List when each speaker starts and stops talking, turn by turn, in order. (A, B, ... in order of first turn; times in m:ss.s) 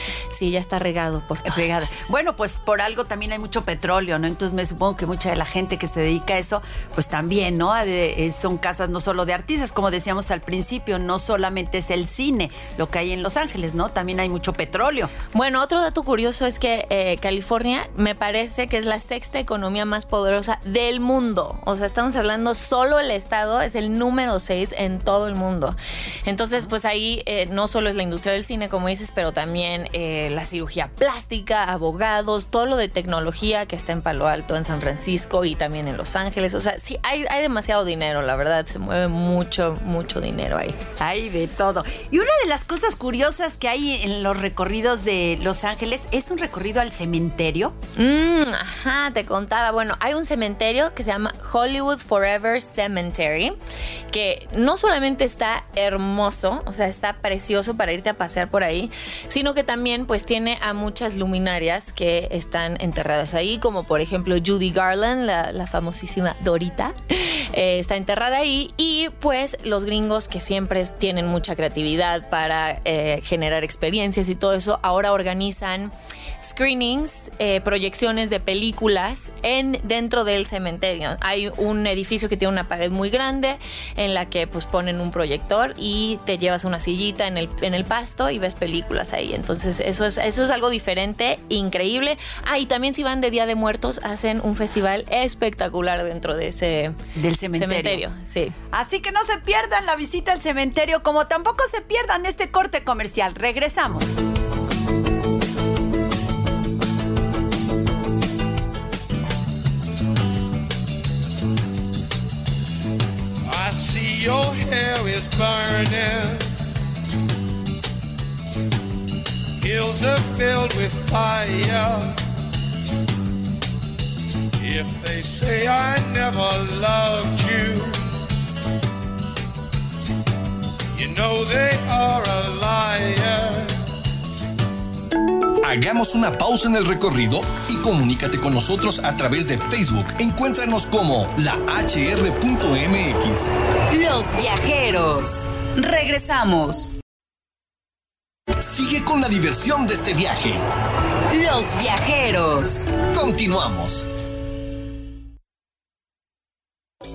0:00.3-0:01.7 A
0:01.4-0:15.1 B
0:15.3-0:40.8 A
0:41.0-0:47.7 B
0:48.0-0:53.6 A
0:54.1-1:37.0 A
1:37.2-1:38.0 B
1:37.5-1:38.6 A
1:38.7-1:44.2 B
1:53.4-1:56.5 C
1:59.6-2:02.1 C
2:04.6-2:08.0 C
2:10.9-2:13.7 C
2:15.6-2:23.5 D
2:23.9-2:27.0 E
2:28.6-2:30.6 D
2:31.3-2:33.0 E
2:33.0-2:34.0 D